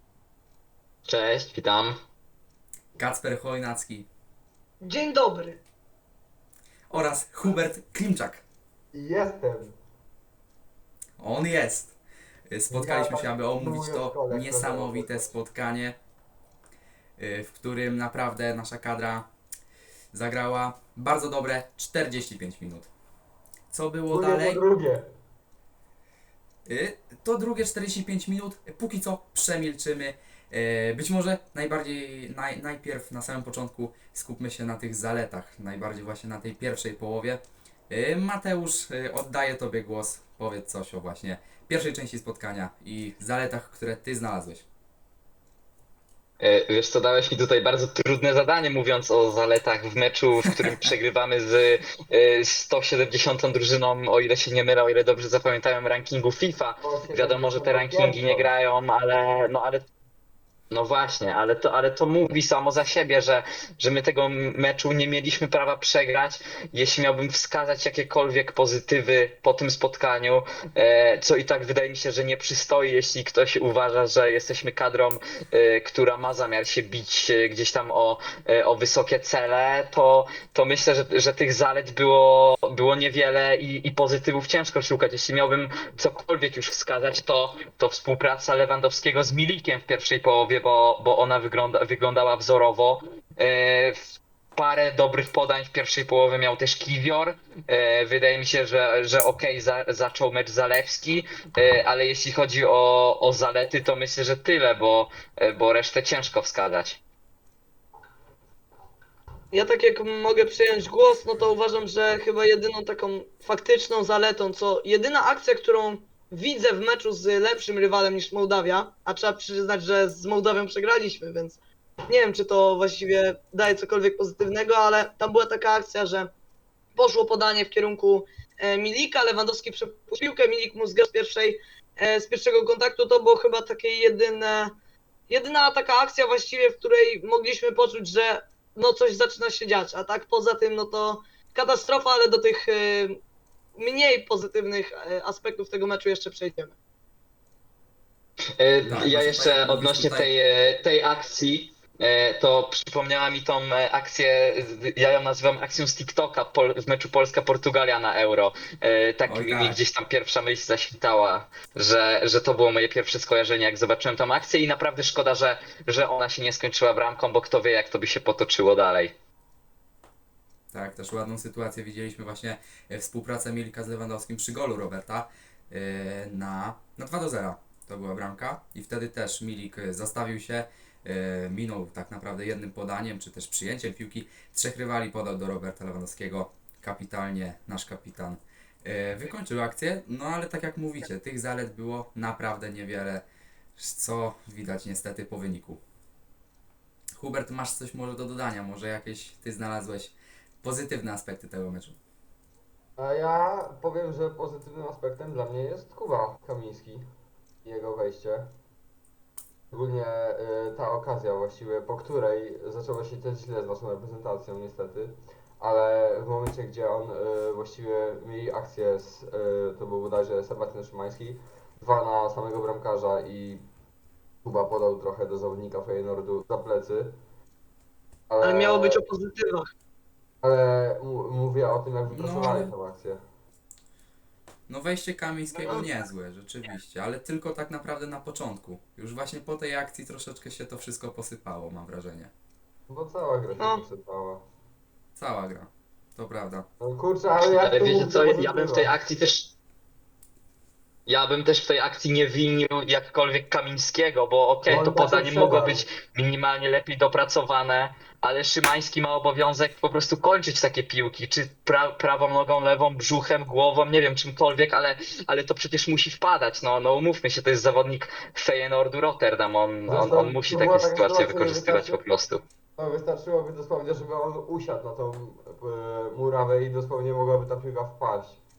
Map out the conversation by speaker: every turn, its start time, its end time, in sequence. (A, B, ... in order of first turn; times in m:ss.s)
0:01.1-0:02.0 A
0:03.0-0:04.1 B
0:04.8-0:05.6 C
0:06.9-0:08.4 B
0:08.9-0:09.8 D
0:11.2-0:12.0 B
0:12.5-0:16.0 B
0:12.7-0:15.3 D
0:17.2-0:19.3 B
0:20.1-0:22.9 B
0:23.7-0:24.6 B
0:24.1-0:25.1 D
0:26.7-0:44.7 B
0:46.4-0:59.8 A
0:56.8-0:58.5 D
1:00.7-1:34.0 A
1:34.6-1:47.0 A
1:49.5-2:06.3 C
2:07.0-2:14.7 C
2:15.3-2:23.2 C
2:23.8-2:26.8 C
2:28.6-2:49.1 A
2:28.9-2:30.3 B
2:39.3-2:39.8 B
2:50.7-3:13.2 B
3:13.8-3:15.8 B
3:17.2-3:22.0 B
3:23.0-3:27.1 D
3:27.6-3:28.5 D
3:29.7-3:43.6 D
3:44.4-3:47.2 D
3:48.3-3:49.0 D
3:48.4-3:49.7 C
3:50.4-3:53.2 D
3:52.1-3:52.7 B
3:54.7-4:02.3 B
4:02.9-4:04.4 D
4:03.6-4:03.8 C
4:05.2-4:06.7 B
4:06.8-4:08.9 D
4:07.4-4:09.5 A
4:11.1-4:32.4 A
4:14.6-4:15.8 D
4:29.9-4:32.0 D
4:32.8-4:38.4 D